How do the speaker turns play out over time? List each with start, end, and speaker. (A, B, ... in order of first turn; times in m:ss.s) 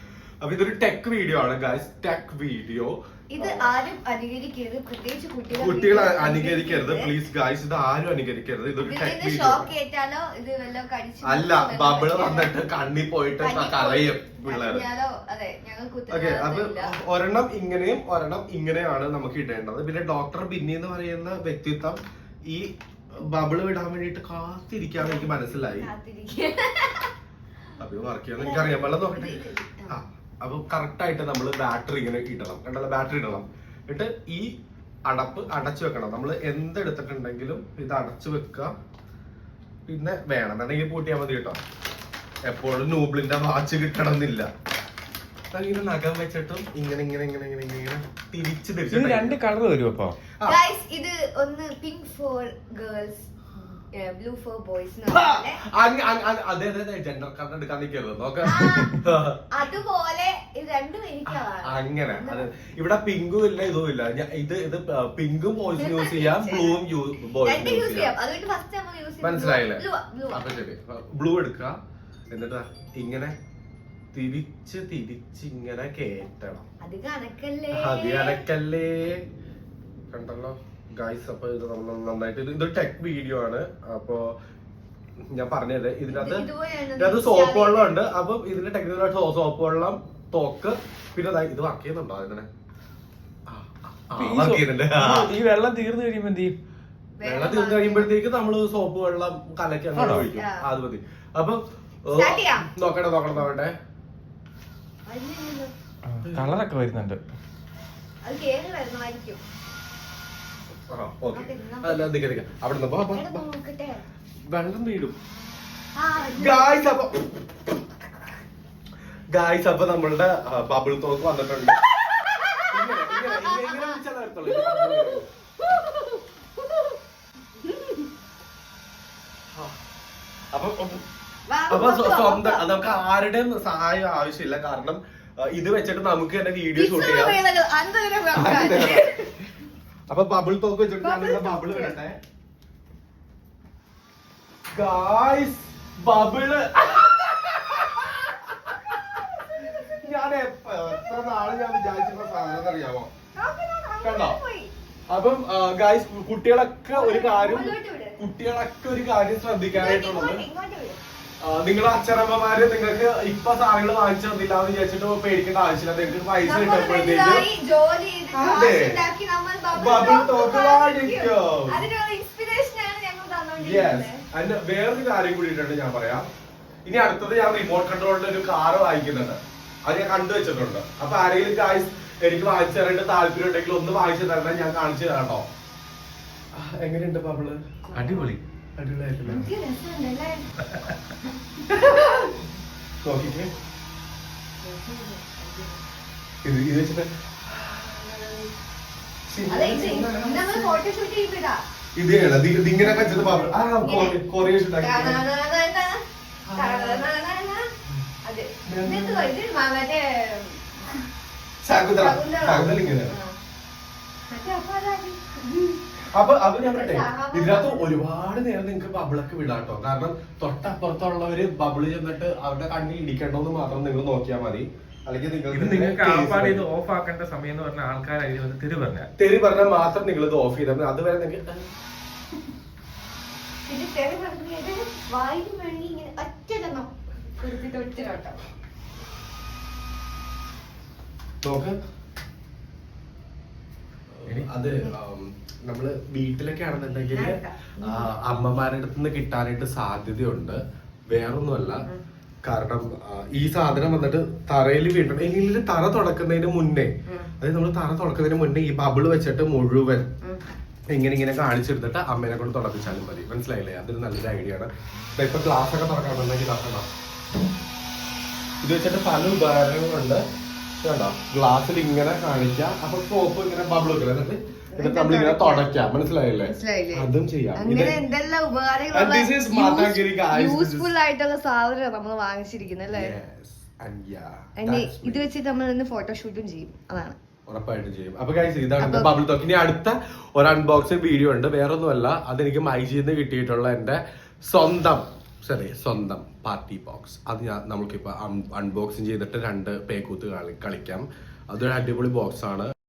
0:00.4-0:03.7 A
0:03.3-0:07.1 B
0:05.5-0:09.7 A
0:08.8-0:12.6 B
0:11.2-0:14.9 A
0:13.4-0:17.0 B
0:16.1-0:22.0 A
0:22.5-0:25.9 A
0:25.0-0:27.1 B
0:27.8-0:34.5 A
0:28.4-0:30.0 B
0:35.1-0:38.7 A
0:39.9-0:41.6 A
0:42.5-0:44.5 A
0:45.5-0:49.4 A
0:48.9-0:50.2 C
0:50.4-0:55.6 B
0:55.1-0:59.4 A
0:58.4-1:02.5 B
1:01.3-1:08.1 A
1:05.8-1:06.8 B
1:07.4-1:10.5 B
1:09.2-1:11.8 A
1:12.3-1:13.4 A
1:14.1-1:16.7 A
1:16.8-1:18.4 B
1:17.7-1:19.2 A
1:20.1-1:24.3 A
1:25.3-1:32.5 A
1:26.1-1:28.0 B
1:33.5-1:35.3 A
1:34.2-1:36.6 C
1:37.2-1:38.1 B
1:37.2-1:43.7 A
1:40.0-1:40.3 C
1:40.4-1:40.7 B
1:42.1-1:42.7 B
1:45.0-1:45.7 B
1:46.1-1:47.2 C
1:46.2-1:46.5 A
1:48.2-1:49.4 B
1:50.9-1:53.4 A
1:51.3-1:52.1 B
1:53.1-1:54.0 B
1:54.5-1:55.2 A
1:56.0-1:56.8 B
1:56.3-1:57.3 A
1:59.3-2:01.8 A
2:02.3-2:06.2 B
2:02.7-2:05.3 A
2:07.7-2:08.0 B
2:10.5-2:11.0 A
2:11.5-2:13.0 B
2:11.7-2:17.4 A
2:16.8-2:19.4 B
2:18.3-2:19.2 A
2:20.1-2:22.2 A
2:21.0-2:22.0 B
2:24.7-2:28.5 A
2:29.8-2:33.1 A
2:31.6-2:32.6 B
2:33.4-2:34.7 B
2:34.0-2:34.4 A
2:35.1-2:40.4 A
2:36.9-2:38.2 B
2:39.7-2:41.0 B
2:41.4-2:47.5 A
2:46.4-2:54.2 B
2:48.3-2:49.1 A
2:49.7-2:51.8 A
2:53.6-2:56.3 A
2:56.9-3:05.5 A
3:06.5-3:07.6 A
3:07.9-3:08.3 B
3:07.9-3:08.4 C
3:08.8-3:09.5 A
3:09.2-3:10.5 B
3:11.2-3:12.4 B
3:13.0-3:13.5 A
3:14.6-3:15.8 B
3:16.4-3:18.2 A
3:19.3-3:20.8 A
3:19.5-3:21.6 B
3:22.0-3:25.2 A
3:22.8-3:24.2 B
3:24.8-3:27.7 B
3:26.5-3:27.1 A
3:28.2-3:31.1 B
3:28.7-3:29.3 A
3:31.6-3:33.2 A
3:31.9-3:33.4 B
3:34.3-3:35.9 B
3:36.1-3:46.7 A
3:36.6-3:37.9 B
3:45.5-3:49.1 C
3:49.2-3:51.7 A
3:53.7-3:58.4 B
4:01.4-4:01.8 A
4:04.2-4:11.8 A
4:04.3-4:04.8 C
4:07.1-4:08.1 B
4:12.4-4:20.1 A
4:20.9-4:26.9 A
4:28.6-4:30.2 A
4:30.8-4:38.0 A
4:34.7-4:35.7 B
4:36.4-4:43.2 B
4:38.9-4:40.9 A
4:42.9-4:45.3 A
4:44.6-4:47.2 B
4:47.5-5:02.7 A
4:48.8-4:49.2 B